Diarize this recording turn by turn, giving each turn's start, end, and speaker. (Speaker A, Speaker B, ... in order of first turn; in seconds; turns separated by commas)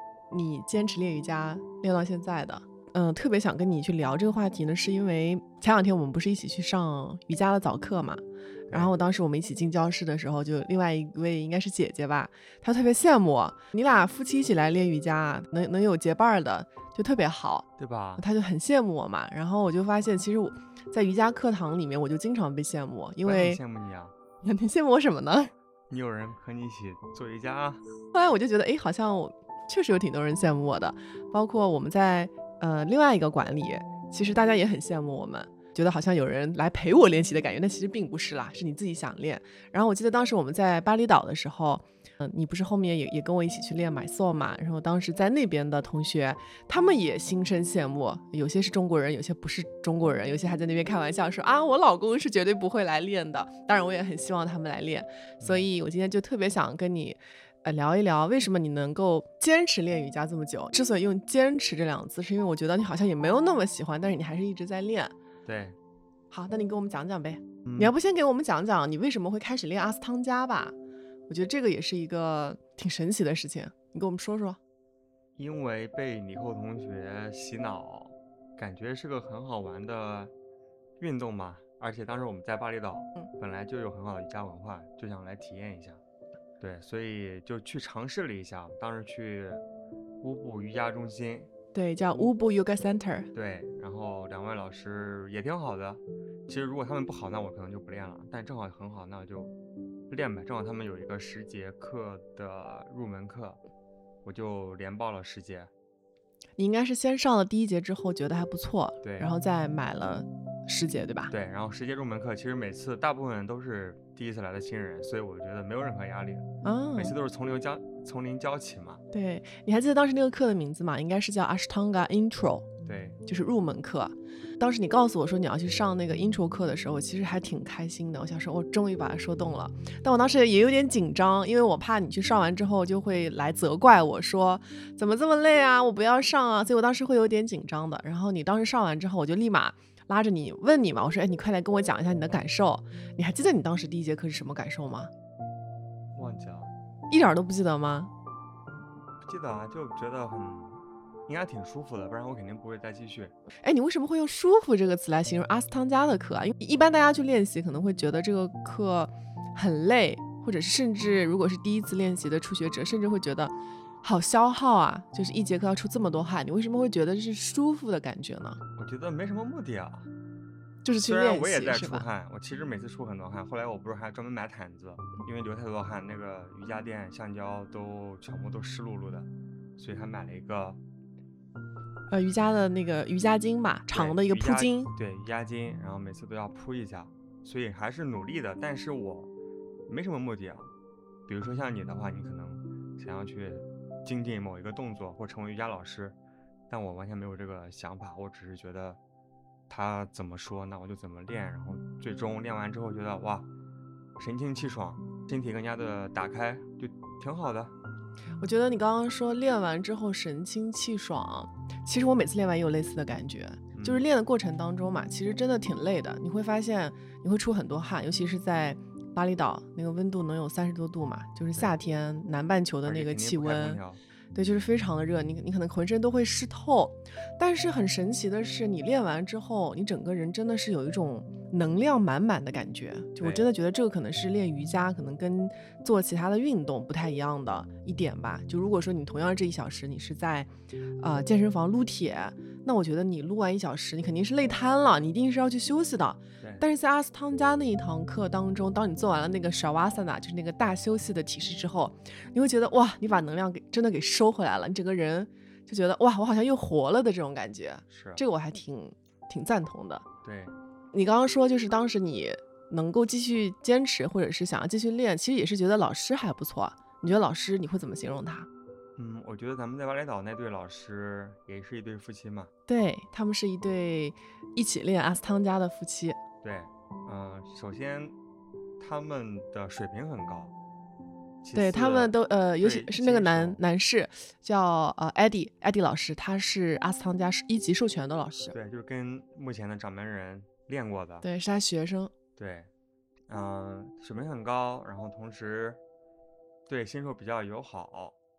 Speaker A: 0.3-17.6, Speaker B: 17.8-18.2, Speaker A: 18.2-23.6, Speaker B: 23.2-24.1, Speaker A: 24.4-25.5, Speaker B: 25.9-27.8, Speaker A: 28.1-65.1, Speaker B: 55.4-55.7, Speaker B: 65.5-65.8, Speaker A: 66.3-70.7, Speaker B: 67.6-67.9, Speaker A: 71.3-74.6, Speaker B: 75.3-80.3, Speaker B: 81.0-86.0, Speaker B: 86.6-89.6, Speaker B: 90.2-91.5, Speaker A: 91.7-93.3, Speaker B: 93.3-99.5, Speaker B: 100.1-103.6, Speaker B: 104.2-105.7, Speaker A: 106.6-111.3, Speaker B: 109.0-109.3, Speaker B: 111.3-116.5, Speaker A: 116.6-117.1, Speaker B: 117.0-119.0, Speaker A: 119.1-122.7, Speaker B: 122.8-123.2, Speaker A: 123.2-145.1, Speaker B: 146.1-146.7, Speaker A: 147.1-148.1, Speaker B: 149.2-153.3, Speaker A: 153.6-168.6, Speaker B: 168.8-170.1, Speaker A: 170.8-172.0, Speaker B: 170.9-180.8, Speaker A: 182.1-184.9, Speaker B: 183.9-189.3, Speaker B: 189.9-190.7, Speaker B: 191.3-196.2, Speaker B: 196.7-199.0, Speaker B: 199.7-203.5, Speaker B: 204.2-207.7, Speaker A: 208.4-223.8, Speaker B: 213.7-214.0, Speaker B: 222.8-224.0, Speaker A: 224.3-240.5, Speaker B: 233.2-233.4, Speaker A: 241.0-260.0, Speaker B: 257.9-258.2, Speaker B: 260.2-260.5, Speaker A: 260.9-268.5, Speaker B: 269.0-272.5, Speaker A: 272.7-276.2, Speaker B: 276.4-278.1, Speaker B: 278.8-280.5, Speaker B: 281.4-283.6, Speaker A: 281.5-288.5, Speaker B: 288.5-291.2, Speaker A: 291.2-292.1, Speaker B: 292.4-292.7, Speaker B: 293.3-295.8, Speaker B: 296.6-298.1